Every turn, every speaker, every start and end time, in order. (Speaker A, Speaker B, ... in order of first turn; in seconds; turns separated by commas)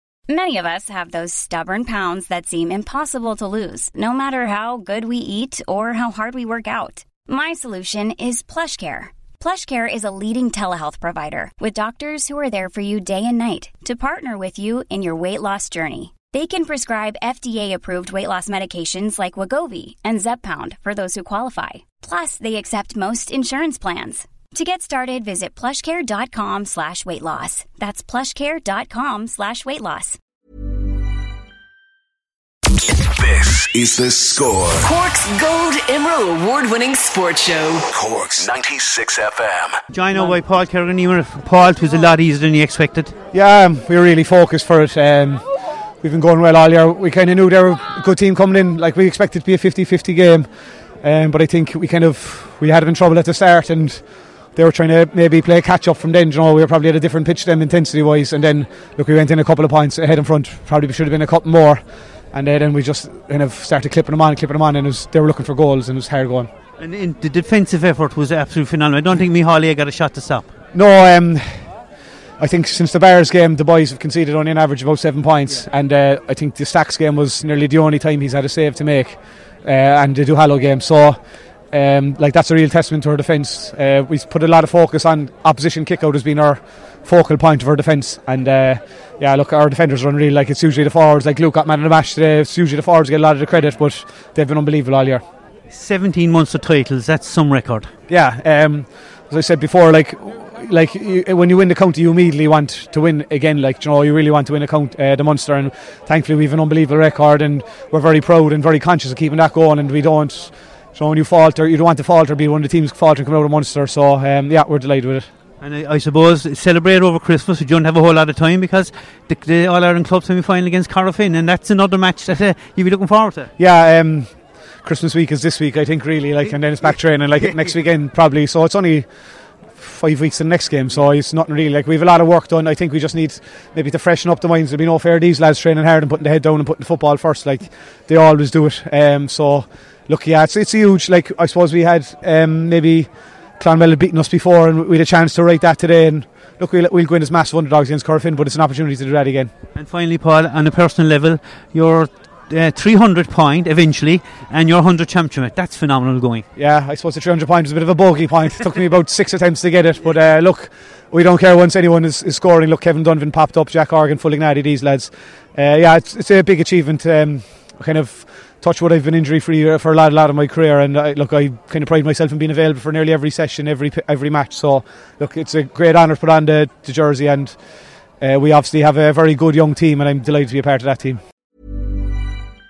Speaker A: 0.3-30.2, Speaker B: 33.2-34.9, Speaker C: 35.3-37.8, Speaker B: 37.9-39.8, Speaker D: 39.9-43.1, Speaker E: 43.3-45.4, Speaker E: 46.0-66.5, Speaker D: 66.8-70.5, Speaker E: 70.7-71.7, Speaker E: 72.4-81.2, Speaker E: 81.7-95.2, Speaker D: 95.7-97.9, Speaker E: 98.1-115.3, Speaker D: 115.6-123.5, Speaker E: 123.6-149.5, Speaker D: 127.4-127.7, Speaker D: 149.8-156.4, Speaker E: 156.6-177.6, Speaker E: 178.2-181.2